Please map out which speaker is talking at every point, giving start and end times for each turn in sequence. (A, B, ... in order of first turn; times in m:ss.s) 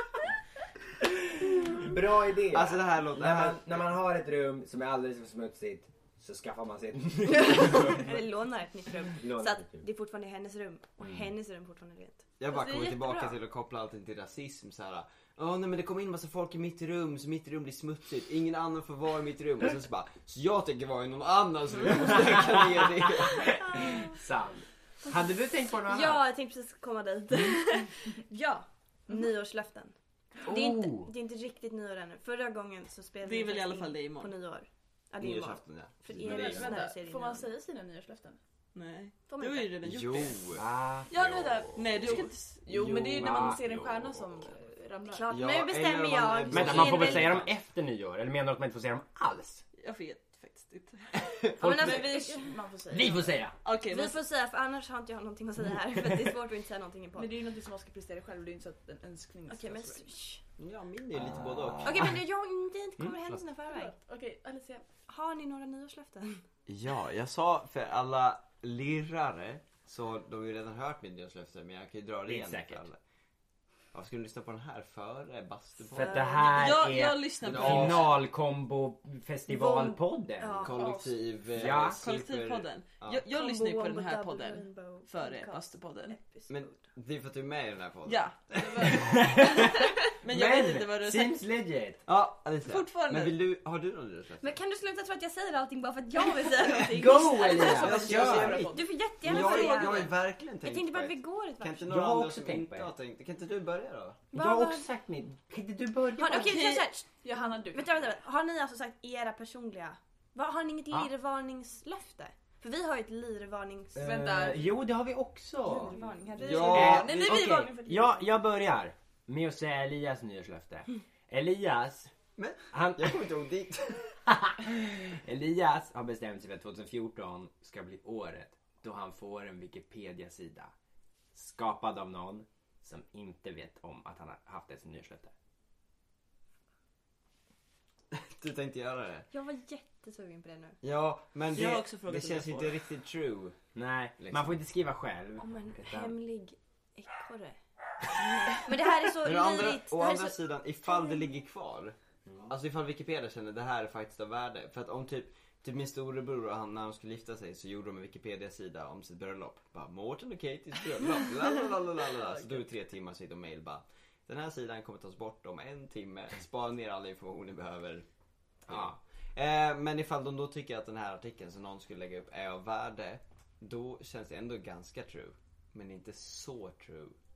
0:01.5-0:08.2 A
0:02.5-0:03.8 B
0:07.2-0:12.2 C
0:09.1-0:09.8 A
0:11.0-0:11.3 A
0:12.4-0:23.6 B
0:12.5-0:13.4 D
0:22.1-0:26.2 A
0:25.9-0:37.5 C
0:30.4-0:31.1 A
0:33.2-0:34.3 E
0:35.2-0:36.8 B
0:36.2-0:38.4 D
0:38.7-0:40.4 E
0:39.3-0:39.7 C
0:39.8-0:42.1 B
0:40.5-0:41.2 A
0:41.1-0:45.3 D
0:41.8-0:42.7 E
0:42.7-0:43.8 A
0:43.1-0:44.4 B
0:45.1-0:47.5 C
0:45.3-0:47.5 B
0:46.5-0:49.6 A
0:49.8-0:51.1 E
0:51.6-0:52.2 A
0:51.6-0:52.6 C
0:51.6-0:53.4 D
0:52.9-0:53.5 A
0:53.6-0:54.2 E
0:53.9-0:57.3 C
0:57.1-1:00.1 D
0:59.5-1:00.4 C
1:00.6-1:02.2 B
1:01.8-1:03.9 C
1:03.7-1:04.8 D
1:05.1-1:06.4 C
1:06.7-1:13.0 B
1:12.2-1:12.8 A
1:13.9-1:16.6 B
1:15.9-1:20.9 A
1:16.0-1:16.4 C
1:16.4-1:18.1 E
1:17.4-1:18.2 B
1:19.5-1:21.1 C
1:20.6-1:23.2 B
1:20.8-1:21.1 D
1:21.5-1:22.0 A
1:21.6-1:26.2 E
1:23.3-1:26.7 C
1:26.5-1:28.2 B
1:28.0-1:28.9 E
1:28.5-1:29.7 D
1:28.9-1:32.0 A
1:30.2-1:31.4 E
1:32.0-1:34.6 B
1:32.6-1:33.4 E
1:34.4-1:41.9 C
1:36.7-1:38.6 A
1:37.6-1:40.1 E
1:37.6-1:38.8 D
1:37.7-1:44.2 B
1:41.8-1:42.9 A
1:44.3-1:44.8 C
1:44.3-1:46.6 A
1:46.2-1:54.2 C
1:46.3-1:46.8 E
1:47.2-1:47.9 D
1:54.0-2:02.1 A
1:54.0-1:54.6 D
1:55.6-1:58.1 C
1:55.9-1:58.2 D
1:56.4-1:57.4 B
2:02.4-2:04.2 B
2:02.7-2:03.2 A
2:04.2-2:10.7 A
2:11.3-2:15.3 A
2:18.1-2:19.3 B
2:19.3-2:20.8 C
2:20.8-2:23.6 B
2:21.5-2:22.8 E
2:23.7-2:26.1 A
2:24.2-2:24.6 B
2:25.4-2:27.6 C
2:28.2-2:31.2 C
2:29.2-2:32.0 B
2:32.5-2:48.0 B
2:48.6-2:57.2 B
2:48.7-2:49.0 A